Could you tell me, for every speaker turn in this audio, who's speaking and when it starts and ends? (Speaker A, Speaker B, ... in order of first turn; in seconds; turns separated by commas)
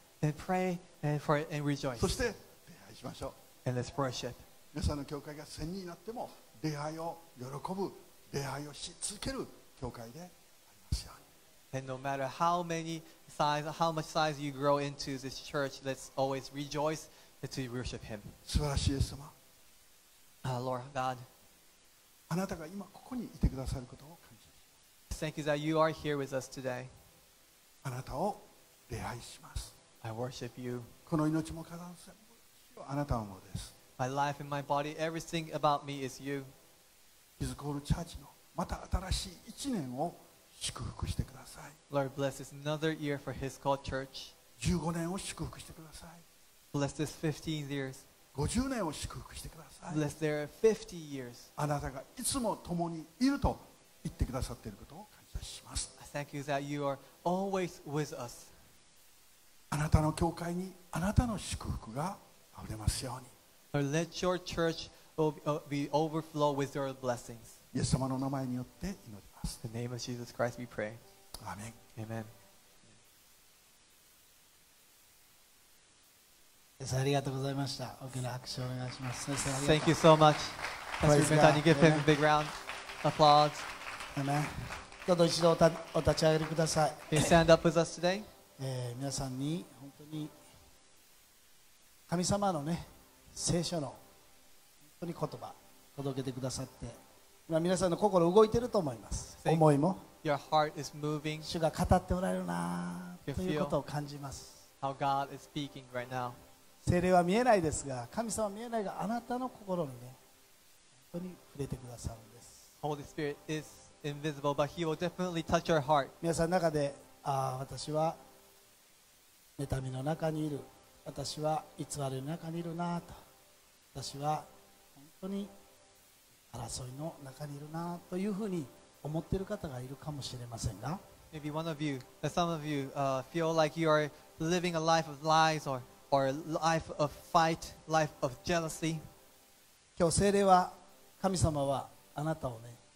Speaker A: 0.2-2.2, Speaker B: 1.9-3.4, Speaker A: 3.6-4.5, Speaker B: 4.7-11.2, Speaker A: 11.7-18.4, Speaker B: 18.4-19.4, Speaker A: 20.4-21.3, Speaker B: 22.3-24.7, Speaker A: 25.1-26.9, Speaker B: 27.8-29.7, Speaker A: 30.0-30.9, Speaker B: 31.1-33.8, Speaker A: 34.0-36.5, Speaker B: 37.4-41.8, Speaker A: 41.9-44.3, Speaker B: 44.6-46.2, Speaker A: 46.7-48.1, Speaker B: 48.3-50.1, Speaker A: 49.9-51.5, Speaker B: 51.6-55.9, Speaker A: 56.0-58.5, Speaker B: 59.7-63.4, Speaker A: 63.7-67.6, Speaker B: 67.7-69.6, Speaker A: 69.6-71.0, Speaker B: 71.4-71.8, Speaker A: 72.0-72.3, Speaker C: 76.8-80.0, Speaker A: 79.5-83.6, Speaker C: 81.0-82.1, Speaker C: 84.1-87.4, Speaker A: 87.1-88.3, Speaker C: 88.6-90.3, Speaker C: 92.1-94.0, Speaker C: 95.0-100.0, Speaker A: 100.2-101.5, Speaker C: 101.4-104.6, Speaker A: 103.3-103.8, Speaker A: 104.8-106.4, Speaker C: 106.8-110.2, Speaker C: 111.1-112.7, Speaker A: 112.8-116.1, Speaker C: 116.2-118.2, Speaker C: 119.6-123.2, Speaker C: 124.0-125.5, Speaker C: 126.5-131.0, Speaker A: 131.3-139.0, Speaker C: 140.0-142.8